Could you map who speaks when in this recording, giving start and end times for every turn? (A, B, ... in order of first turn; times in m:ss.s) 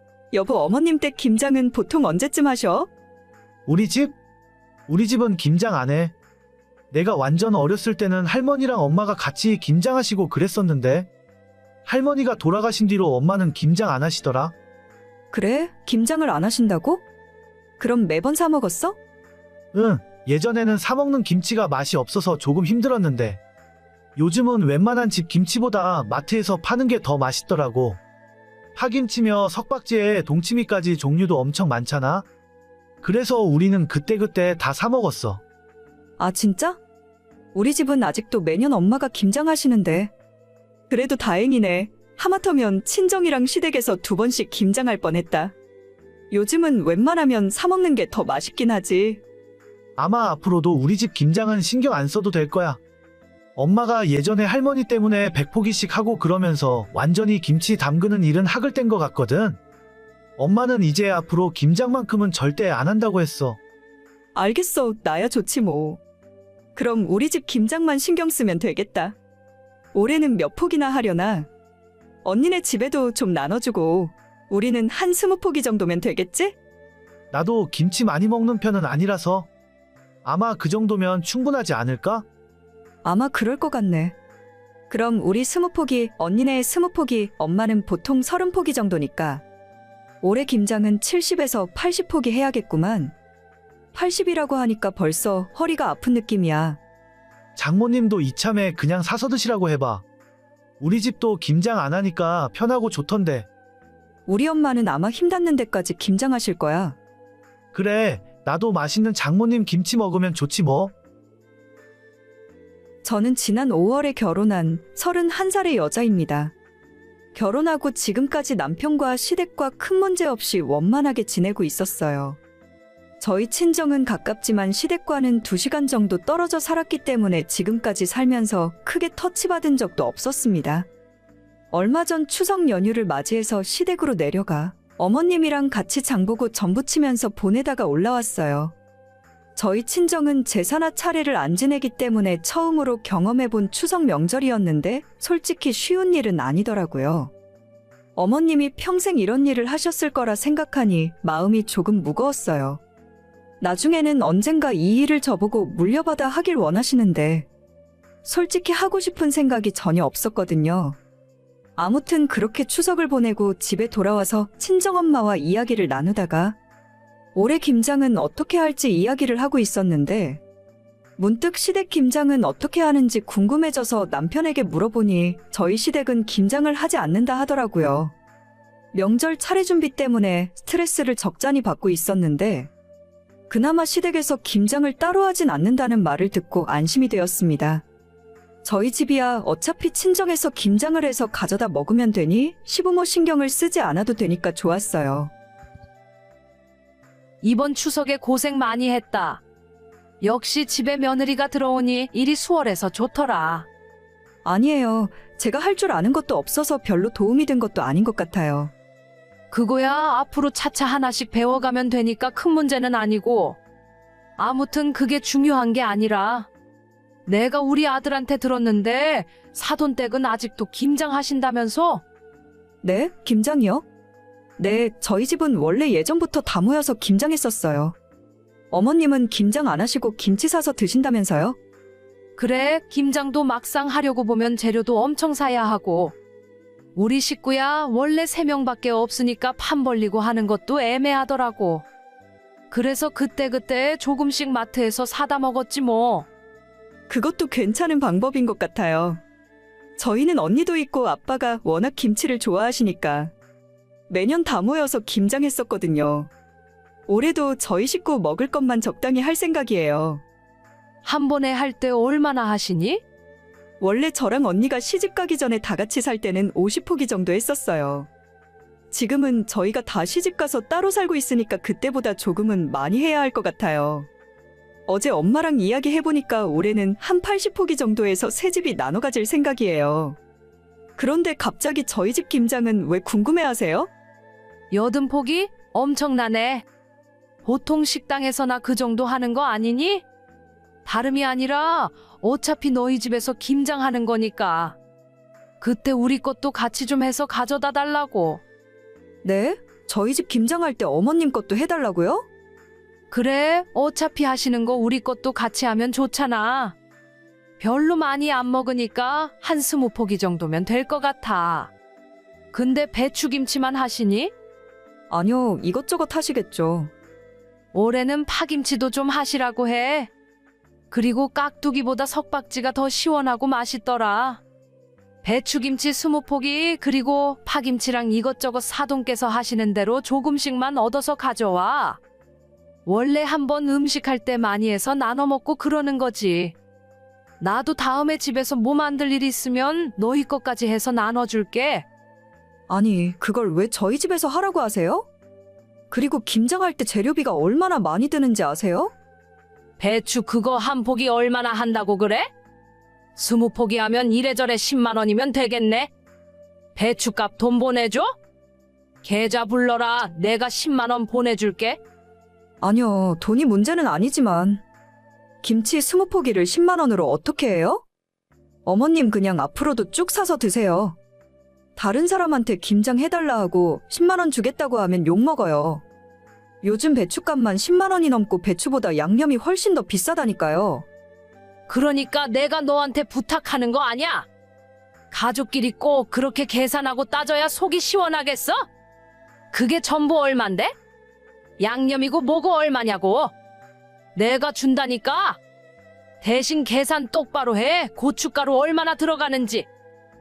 0:00.3-0:02.9 A
0:03.7-0:04.1 B
0:04.9-0:06.1 B
0:06.9-0:11.1 B
0:11.8-0:14.5 B
0:15.3-0:17.0 A
0:17.8-0:19.0 A
0:19.7-0:23.4 B
0:24.2-0:28.0 B
0:28.7-0:32.2 B
0:33.0-0:35.4 B
0:36.2-0:36.8 A
0:37.5-0:40.1 A
0:40.9-0:45.5 A
0:46.3-0:49.2 A
0:50.0-0:52.8 B
0:53.6-0:59.6 B
1:00.4-1:03.6 B
1:04.3-1:06.0 A
1:06.8-1:09.2 A
1:09.9-1:11.5 A
1:12.2-1:16.6 A
1:17.3-1:19.5 B
1:20.2-1:22.2 B
1:23.0-1:24.1 A
1:24.9-1:29.4 A
1:30.2-1:33.1 A
1:33.9-1:36.8 A
1:37.6-1:40.0 B
1:40.8-1:43.5 B
1:44.3-1:47.0 A
1:47.7-1:50.9 B
1:53.0-1:56.5 A
1:57.3-2:02.4 A
2:03.2-2:10.9 A
2:11.7-2:18.7 A
2:19.6-2:27.3 A
2:28.2-2:32.8 A
2:33.6-2:37.5 A
2:38.2-2:41.0 A
2:41.8-2:46.6 A
2:47.3-2:50.4 A
2:51.2-2:58.1 A
2:58.9-3:02.7 A
3:03.5-3:07.8 A
3:08.6-3:15.3 A
3:17.4-3:19.4 C
3:20.2-3:23.6 C
3:24.4-3:28.7 A
3:29.5-3:33.6 C
3:34.4-3:36.5 C
3:37.2-3:42.0 C
3:42.8-3:43.8 A
3:44.6-3:48.0 A
3:48.7-3:51.6 A
3:52.4-3:56.1 C
3:57.0-4:01.8 C
4:02.7-4:06.2 C
4:07.1-4:09.2 A
4:10.0-4:13.3 A
4:14.1-4:16.3 A
4:17.1-4:20.2 A
4:21.0-4:23.0 C
4:23.8-4:28.1 A
4:28.9-4:34.1 A
4:34.9-4:40.2 A
4:41.0-4:43.9 A
4:44.7-4:46.6 C
4:47.4-4:50.0 C
4:50.8-4:54.8 C
4:55.6-4:58.4 C
4:59.2-5:02.2 A
5:03.1-5:06.7 C
5:07.6-5:11.7 C
5:12.5-5:14.3 C
5:15.1-5:16.9 A
5:17.7-5:20.1 C
5:20.9-5:24.4 C
5:25.2-5:32.0 C
5:32.8-5:36.6 C
5:37.4-5:41.8 C
5:42.7-5:45.1 A
5:45.9-5:48.9 A
5:49.8-5:52.3 C
5:53.2-5:55.9 C
5:56.7-5:58.1 C
5:59.0-6:01.8 C
6:02.6-6:04.6 A
6:05.4-6:07.8 A
6:08.6-6:11.0 A
6:11.8-6:15.8 A
6:16.6-6:20.8 A
6:21.7-6:24.3 C
6:25.1-6:28.7 C
6:29.5-6:30.7 C
6:31.6-6:33.3 C
6:34.1-6:35.4 C
6:36.2-6:39.7 C